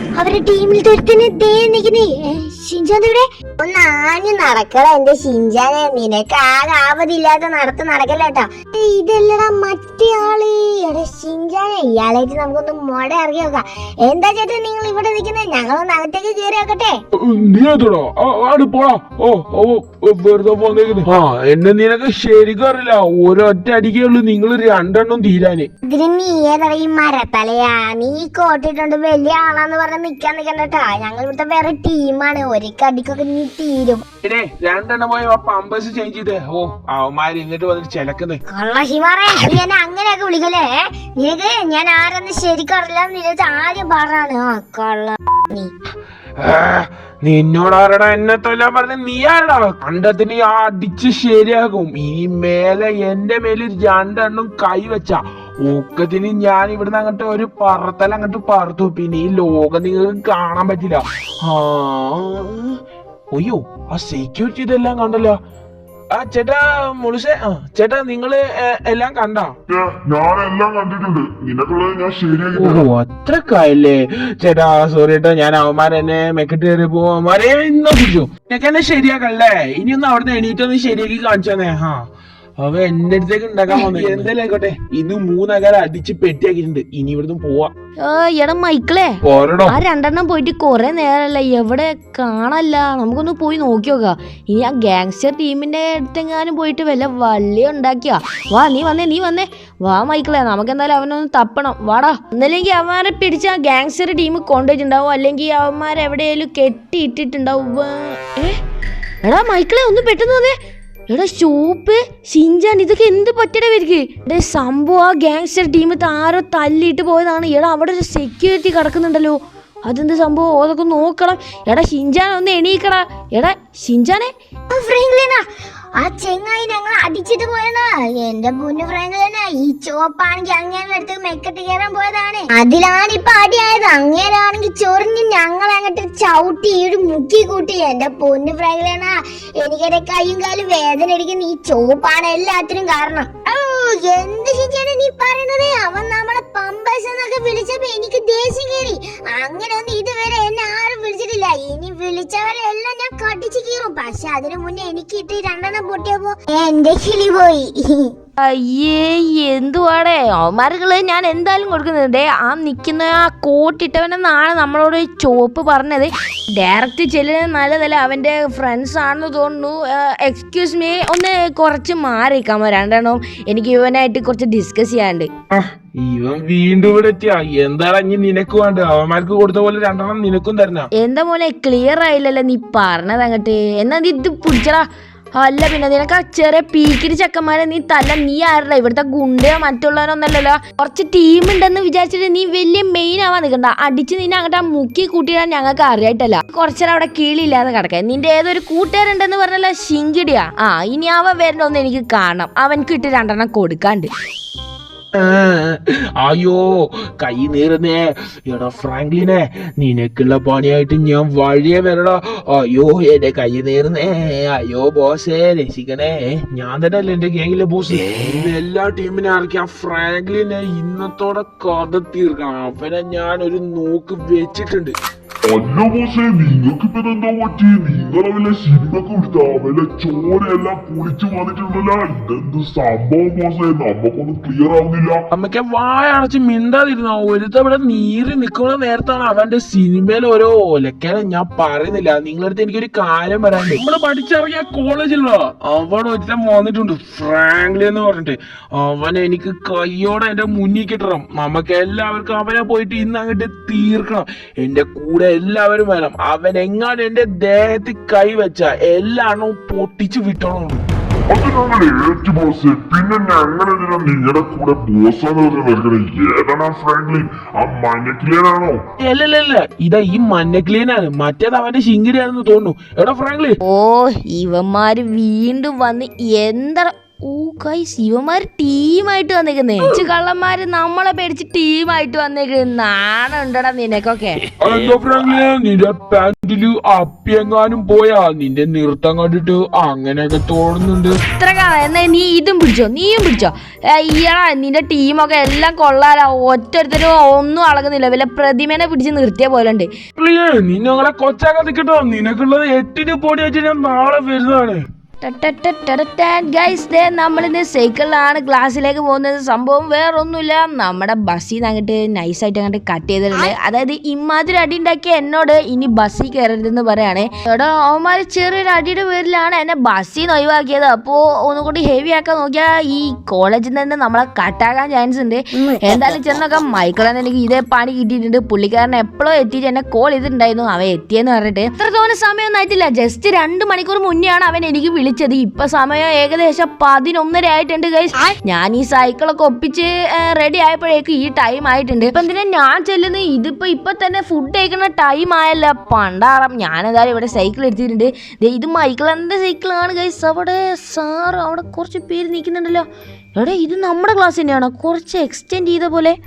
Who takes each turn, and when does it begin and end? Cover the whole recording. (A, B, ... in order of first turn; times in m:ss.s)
0:00.2-0:17.0 A
0:17.2-0:25.7 B
0:25.8-0:34.0 A
0:34.2-0:38.4 B
0:38.5-0:45.7 A
0:46.4-1:02.8 B
1:03.3-1:05.4 B
1:06.1-1:09.5 B
1:09.7-1:12.8 C
1:12.5-1:22.0 B
1:22.6-1:27.7 B
1:24.0-1:24.3 D
1:28.0-1:48.6 D
1:29.2-1:29.8 B
1:49.2-1:50.5 D
1:51.1-2:04.3 D
2:04.7-2:05.4 A
2:06.0-2:38.1 A
2:38.4-2:55.3 D
2:55.5-3:00.9 B
3:01.0-3:04.8 D
3:05.4-3:24.1 D
3:25.2-3:45.0 B
3:45.5-3:55.2 C
3:55.3-4:20.8 B
4:21.3-4:28.8 C
4:29.0-4:33.6 B
4:33.6-4:44.4 D
4:44.6-4:51.2 B
4:51.4-4:59.9 D
5:00.2-5:04.8 B
5:05.2-5:56.2 D
5:25.6-5:26.1 A